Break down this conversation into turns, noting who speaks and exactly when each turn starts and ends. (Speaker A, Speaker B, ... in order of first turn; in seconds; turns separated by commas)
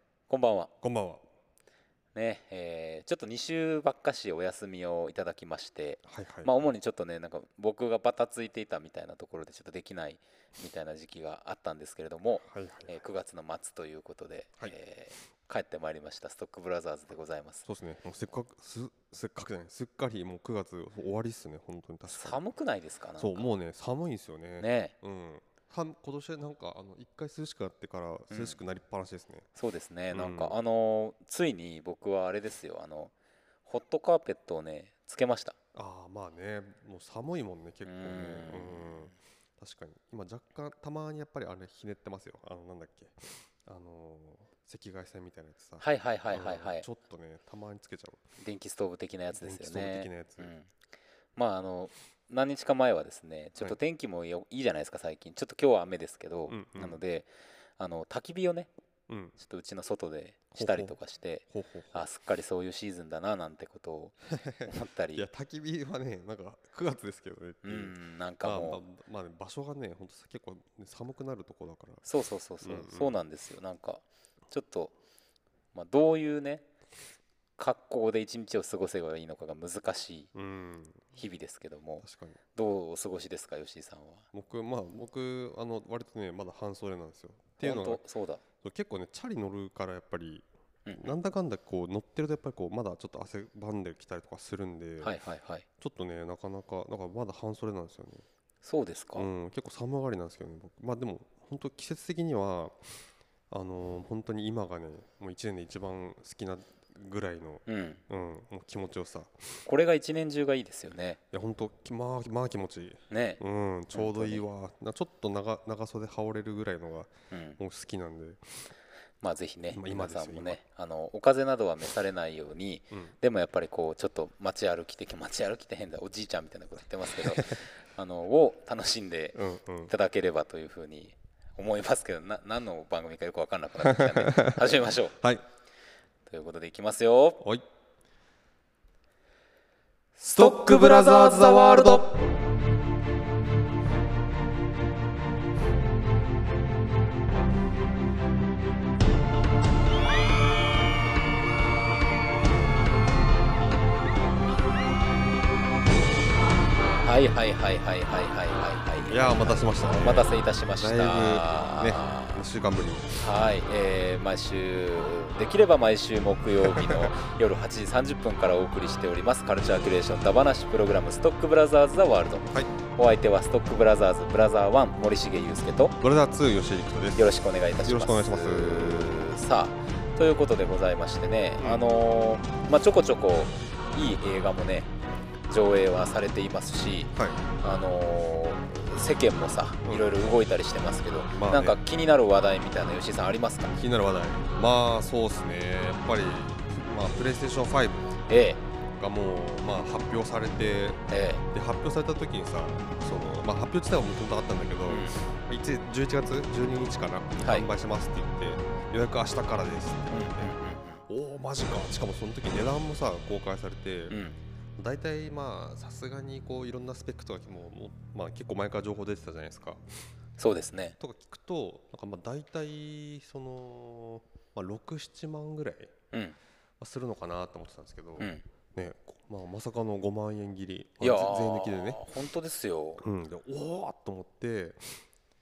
Speaker A: 0.3-0.7, Speaker B: 0.8-1.2, Speaker A: 2.1-17.6, Speaker B: 6.1-6.5, Speaker B: 12.4-12.9, Speaker B: 17.6-22.4, Speaker A: 22.1-23.5, Speaker B: 23.2-29.5, Speaker A: 24.6-24.9, Speaker A: 28.3-28.6, Speaker A: 29.6-33.1, Speaker B: 30.1-30.6, Speaker A: 33.7-35.6, Speaker B: 35.8-48.2, Speaker A: 37.9-39.1, Speaker A: 45.8-46.9, Speaker A: 48.4-50.7, Speaker B: 49.3-50.5, Speaker A: 51.4-58.7, Speaker B: 56.5-57.0, Speaker B: 59.1-59.4, Speaker A: 59.4-65.2, Speaker B: 60.5-61.0, Speaker B: 61.5-62.1, Speaker B: 64.3-72.1, Speaker A: 67.6-68.8, Speaker A: 72.1-74.9, Speaker B: 72.6-73.2, Speaker A: 75.7-76.7, Speaker A: 77.6-80.3, Speaker B: 80.3-81.2, Speaker A: 81.2-84.3, Speaker B: 82.0-82.4, Speaker B: 84.3-88.0, Speaker A: 87.6-88.4, Speaker B: 88.6-90.5, Speaker A: 90.9-91.1, Speaker B: 91.0-95.2, Speaker A: 95.0-95.7, Speaker B: 95.8-98.3, Speaker A: 98.6-99.3, Speaker B: 99.2-102.9, Speaker B: 103.5-109.7, Speaker A: 107.7-108.0, Speaker A: 109.7-111.2, Speaker B: 111.3-118.6, Speaker A: 113.1-113.4, Speaker A: 113.9-114.4, Speaker A: 117.3-117.6, Speaker A: 119.2-135.2, Speaker B: 119.7-120.6, Speaker B: 127.1-127.5, Speaker B: 129.3-129.9, Speaker B: 133.8-135.4, Speaker A: 136.3-137.4, Speaker A: 140.2-142.1, Speaker B: 140.3-142.1, Speaker A: 157.0-162.4, Speaker B: 159.1-163.2, Speaker A: 163.2-176.0, Speaker B: 166.6-167.1, Speaker B: 176.0-177.3, Speaker A: 177.2-184.9, Speaker B: 177.8-179.2, Speaker B: 181.6-181.8, Speaker A: 185.5-193.7, Speaker B: 187.1-187.4, Speaker B: 189.8-190.1, Speaker B: 191.3-191.8, Speaker B: 193.7-198.1, Speaker A: 198.3-198.6, Speaker B: 199.0-201.0, Speaker A: 201.1-201.4, Speaker B: 201.5-210.5, Speaker A: 204.9-205.2, Speaker A: 207.4-207.7, Speaker A: 210.1-211.0, Speaker B: 211.1-214.2, Speaker A: 214.1-214.4, Speaker B: 214.8-219.8, Speaker A: 220.4-221.0, Speaker B: 221.0-225.9, Speaker B: 226.8-232.1, Speaker A: 228.2-228.4, Speaker A: 231.0-233.1, Speaker B: 233.0-235.0